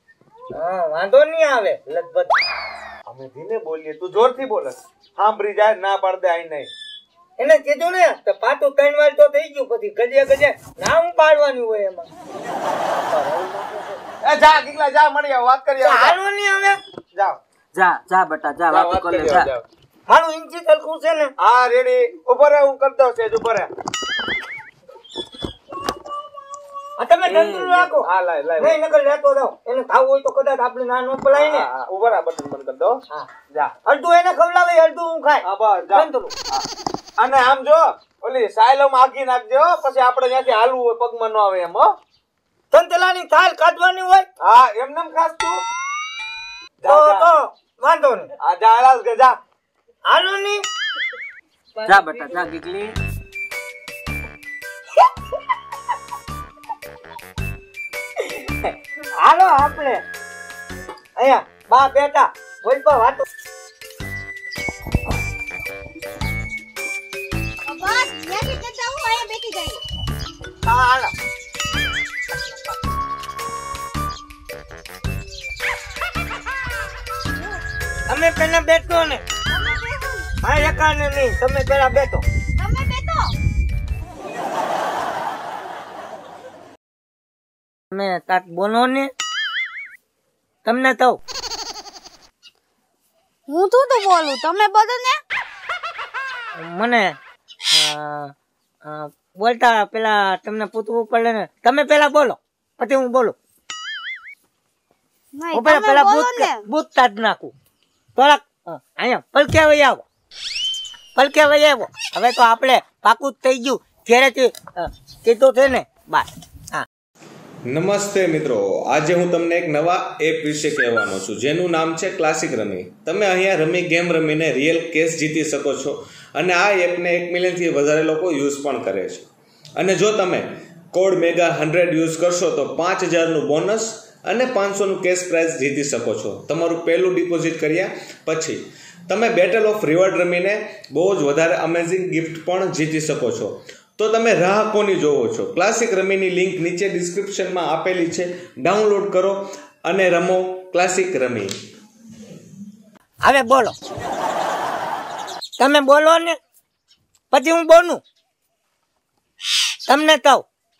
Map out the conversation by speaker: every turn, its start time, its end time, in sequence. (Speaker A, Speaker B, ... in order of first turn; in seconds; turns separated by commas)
Speaker A: 0.5-2.3, Speaker B: 3.0-6.7, Speaker A: 7.4-12.1, Speaker A: 13.1-13.9, Speaker B: 14.2-16.2, Speaker A: 15.8-16.8, Speaker B: 17.1-17.4, Speaker C: 17.7-19.5, Speaker B: 18.7-19.6, Speaker A: 20.1-21.3, Speaker B: 21.4-23.7, Speaker A: 27.0-31.7, Speaker B: 27.3-28.8, Speaker B: 31.3-33.0, Speaker A: 33.8-36.3, Speaker B: 35.4-36.6, Speaker B: 37.2-41.9, Speaker A: 42.7-44.3, Speaker B: 44.4-45.6, Speaker B: 46.8-47.3, Speaker A: 46.9-48.3, Speaker B: 48.4-49.4, Speaker A: 50.1-50.6, Speaker C: 51.8-52.9, Speaker A: 58.3-58.7, Speaker A: 59.2-60.0, Speaker A: 61.1-63.2, Speaker D: 67.7-69.8, Speaker A: 70.6-71.1, Speaker A: 78.1-79.2, Speaker D: 79.5-80.3, Speaker A: 80.4-82.2, Speaker D: 82.6-83.3, Speaker A: 87.9-89.1, Speaker A: 90.6-91.2, Speaker D: 93.5-95.2, Speaker A: 96.5-97.2, Speaker A: 97.7-103.3, Speaker D: 105.3-106.6, Speaker A: 105.5-107.5, Speaker A: 108.2-110.0, Speaker A: 111.1-116.8, Speaker E: 117.7-151.5, Speaker A: 153.2-153.7, Speaker A: 155.6-156.3, Speaker A: 157.3-158.0, Speaker A: 159.9-160.4